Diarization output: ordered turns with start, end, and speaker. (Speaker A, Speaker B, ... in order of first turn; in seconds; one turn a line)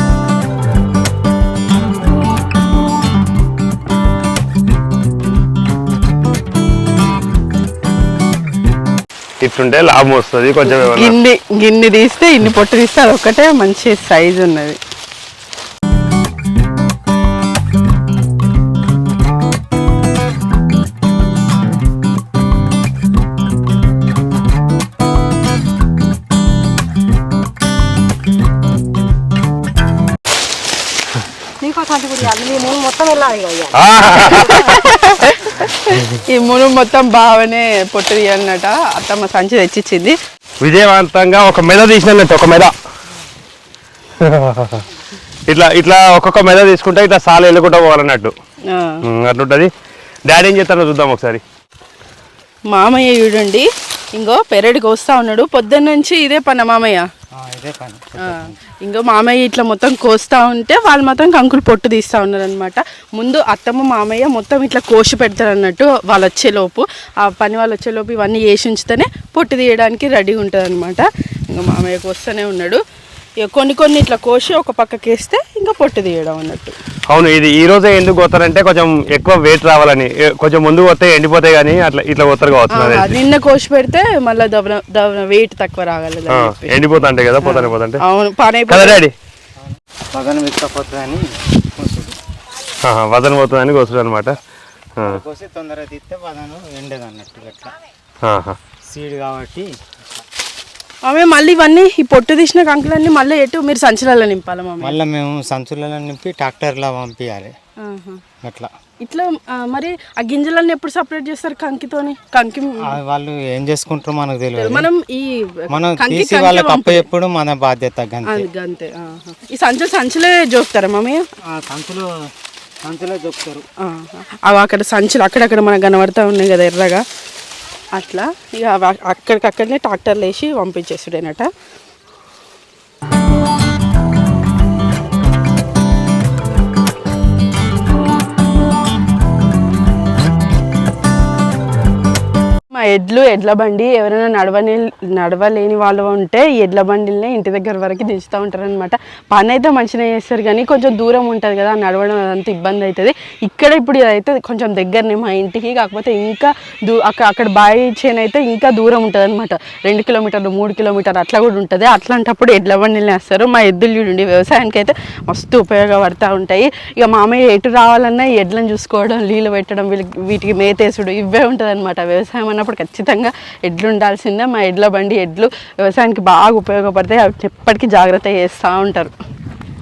Speaker A: 9.4-11.2
Speaker B: 10.8-14.8
Speaker C: 31.6-34.8
Speaker A: 33.7-34.7
Speaker B: 34.4-40.1
Speaker A: 40.6-42.7
Speaker A: 44.2-44.8
Speaker A: 45.5-48.3
Speaker B: 48.7-49.0
Speaker A: 49.1-49.7
Speaker A: 50.3-51.4
Speaker B: 52.7-57.1
Speaker D: 57.4-58.6
Speaker B: 58.2-72.8
Speaker B: 73.4-76.7
Speaker A: 77.1-83.2
Speaker B: 82.7-86.7
Speaker A: 86.3-88.0
Speaker B: 87.4-89.0
Speaker A: 88.7-89.1
Speaker D: 89.7-92.2
Speaker A: 92.8-94.3
Speaker D: 95.0-97.7
Speaker A: 98.2-98.6
Speaker D: 98.9-100.2
Speaker B: 101.0-105.0
Speaker D: 104.8-107.5
Speaker B: 107.8-108.2
Speaker D: 108.4-108.7
Speaker B: 109.0-112.9
Speaker D: 112.8-114.9
Speaker B: 114.6-117.0
Speaker D: 115.7-118.5
Speaker B: 118.2-121.2
Speaker D: 121.5-122.1
Speaker D: 122.8-123.6
Speaker B: 123.8-127.0
Speaker B: 127.9-131.5
Speaker B: 142.7-179.1